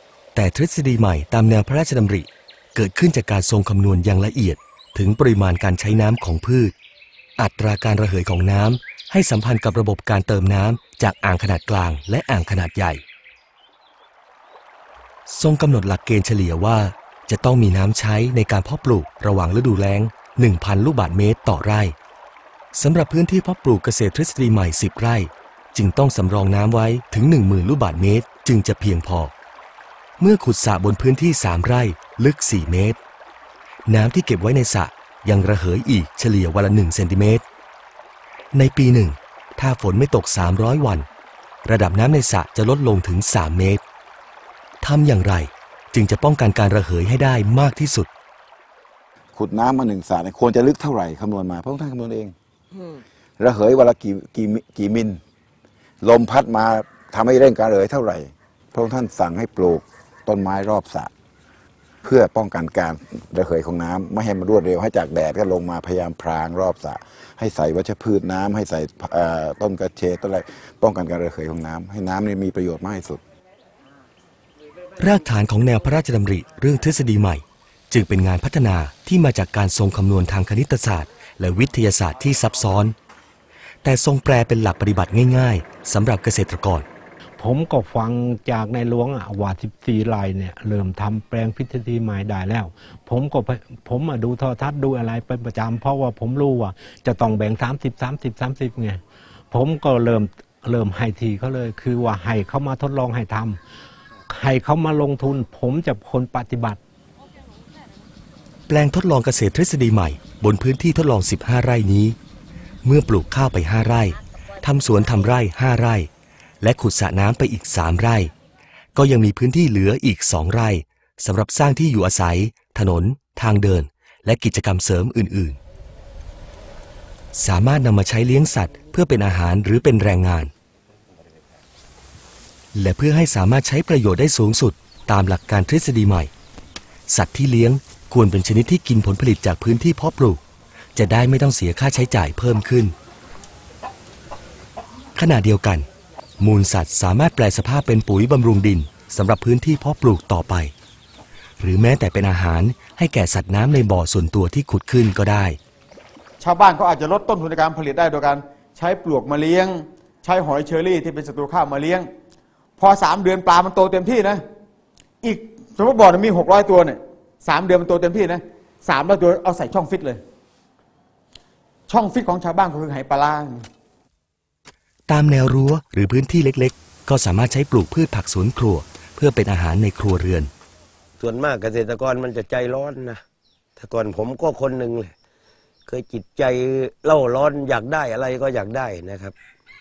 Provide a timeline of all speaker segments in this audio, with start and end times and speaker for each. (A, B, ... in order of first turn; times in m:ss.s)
0:00.3-0:06.7 A
0:07.4-0:13.0 A
0:15.3-0:22.0 A
0:22.7-0:29.3 A
0:30.2-0:33.0 A
0:33.9-0:37.4 A
0:38.5-0:41.1 A
0:41.6-0:43.8 A
0:44.8-0:48.1 A
0:49.4-0:52.3 B
0:53.4-0:55.2 B
0:56.0-1:01.1 B
1:02.0-1:13.2 B
1:15.0-1:22.9 A
1:23.8-1:26.8 A
1:27.4-1:29.1 C
1:29.8-1:34.0 C
1:36.3-1:36.7 C
1:37.3-1:38.9 C
1:39.5-1:43.5 C
1:44.4-1:44.8 C
1:45.4-1:45.7 C
1:48.7-1:52.2 A
1:52.8-1:56.1 A
1:56.6-1:58.3 A
1:58.9-2:05.6 A
2:07.3-2:10.5 A
2:12.7-2:16.3 A
2:17.1-2:20.4 A
2:21.0-2:22.9 A
2:25.2-2:25.9 A
2:26.4-2:30.7 A
2:31.6-2:35.6 A
2:36.4-2:42.1 D
2:42.8-2:44.5 D
2:45.2-2:50.2 D
2:51.9-2:53.7 D
2:55.1-3:00.5 A
3:01.2-3:03.2 E
3:03.8-3:05.1 E
3:05.9-3:09.3 E